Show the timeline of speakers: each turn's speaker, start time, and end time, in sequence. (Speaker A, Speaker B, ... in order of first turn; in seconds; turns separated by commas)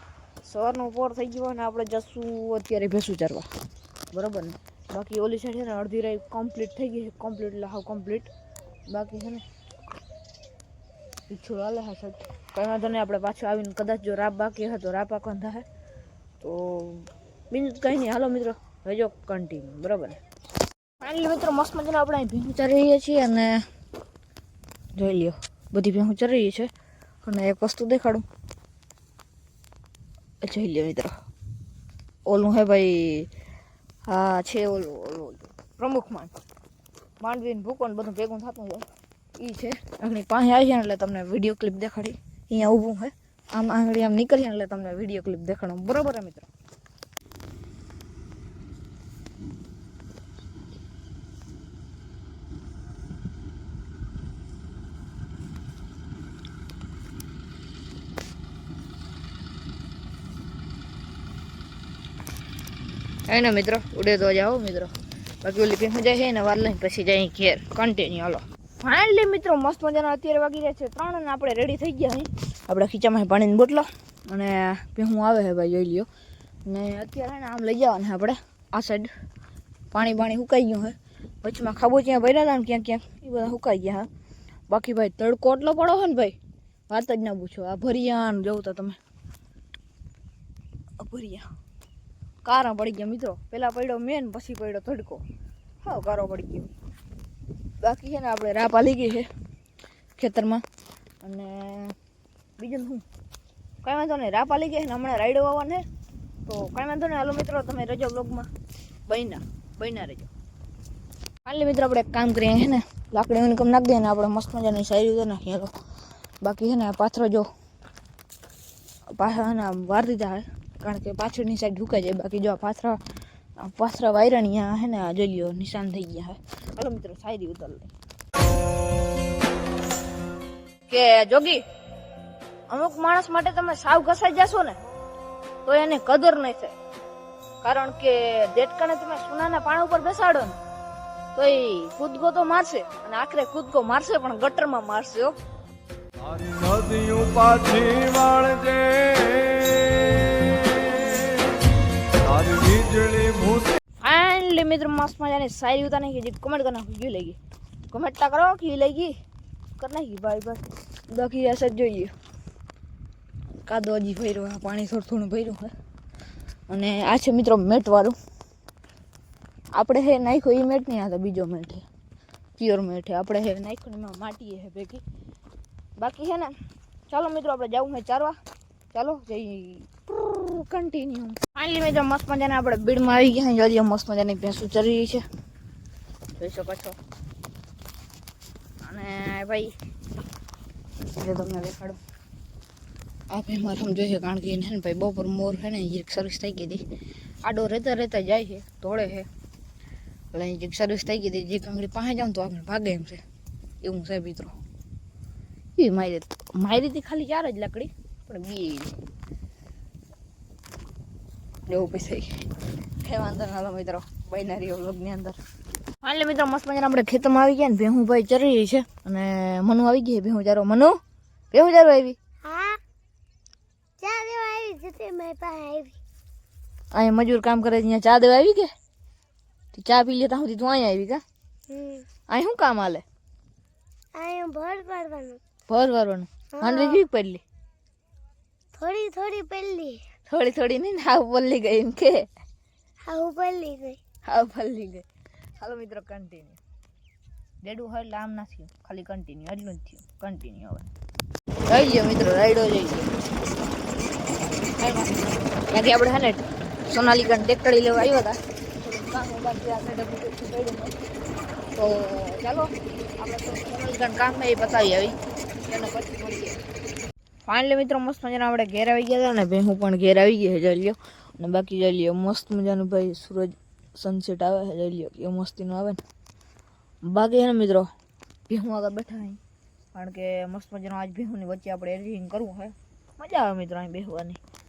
Speaker A: 0.4-3.5, Speaker A: 4.1-8.3, Speaker A: 8.9-9.4, Speaker A: 11.3-15.6, Speaker A: 16.4-20.2, Speaker A: 21.0-23.6, Speaker A: 24.9-26.7, Speaker A: 27.2-28.2, Speaker A: 30.4-31.1, Speaker A: 32.2-33.3, Speaker A: 34.1-36.3, Speaker A: 37.2-38.9, Speaker A: 39.4-46.5, Speaker A: 63.3-76.1, Speaker A: 76.7-79.1, Speaker A: 79.9-84.1, Speaker A: 84.7-86.4, Speaker A: 86.9-89.0, Speaker A: 91.0-91.5, Speaker A: 92.4-95.2, Speaker A: 95.8-96.7, Speaker A: 97.8-99.3, Speaker A: 100.2-100.6, Speaker A: 101.2-101.9, Speaker A: 102.6-103.0, Speaker A: 103.8-105.8, Speaker A: 106.5-108.5, Speaker A: 109.1-110.3, Speaker A: 111.4-115.7, Speaker A: 116.4-117.5, Speaker A: 119.2-123.0, Speaker A: 123.6-127.9, Speaker A: 130.9-131.6, Speaker A: 132.7-134.8, Speaker A: 135.6-136.8, Speaker A: 137.6-140.6, Speaker A: 141.3-145.3, Speaker B: 146.2-151.3, Speaker B: 152.2-153.7, Speaker A: 154.0-157.4, Speaker A: 157.9-159.1, Speaker A: 159.8-162.1, Speaker A: 163.6-165.7, Speaker A: 166.7-168.2, Speaker A: 169.7-171.8, Speaker A: 172.6-175.0, Speaker A: 176.0-176.5, Speaker A: 177.1-178.4, Speaker A: 178.9-185.2, Speaker A: 186.4-187.0, Speaker A: 188.8-189.7, Speaker A: 191.1-192.0, Speaker A: 193.3-196.8, Speaker A: 197.4-199.3, Speaker A: 200.3-203.2, Speaker A: 203.8-204.5, Speaker A: 205.8-208.9, Speaker A: 211.7-212.3, Speaker A: 213.0-215.4, Speaker A: 216.0-221.0, Speaker A: 221.5-222.2, Speaker C: 222.4-222.8, Speaker C: 224.0-226.0, Speaker A: 226.9-228.7, Speaker A: 229.7-231.2, Speaker C: 231.7-232.1, Speaker A: 232.3-233.0, Speaker C: 234.2-235.4, Speaker A: 235.7-237.4, Speaker C: 236.6-237.0, Speaker C: 238.8-240.0, Speaker A: 240.3-242.3, Speaker C: 243.1-244.0, Speaker A: 244.2-245.0, Speaker A: 245.6-246.6, Speaker A: 247.6-250.9, Speaker A: 251.7-253.1, Speaker A: 254.8-260.9, Speaker A: 261.7-265.1, Speaker A: 265.6-266.6, Speaker A: 267.5-276.0, Speaker A: 277.0-277.9, Speaker A: 278.5-279.4, Speaker A: 279.9-284.4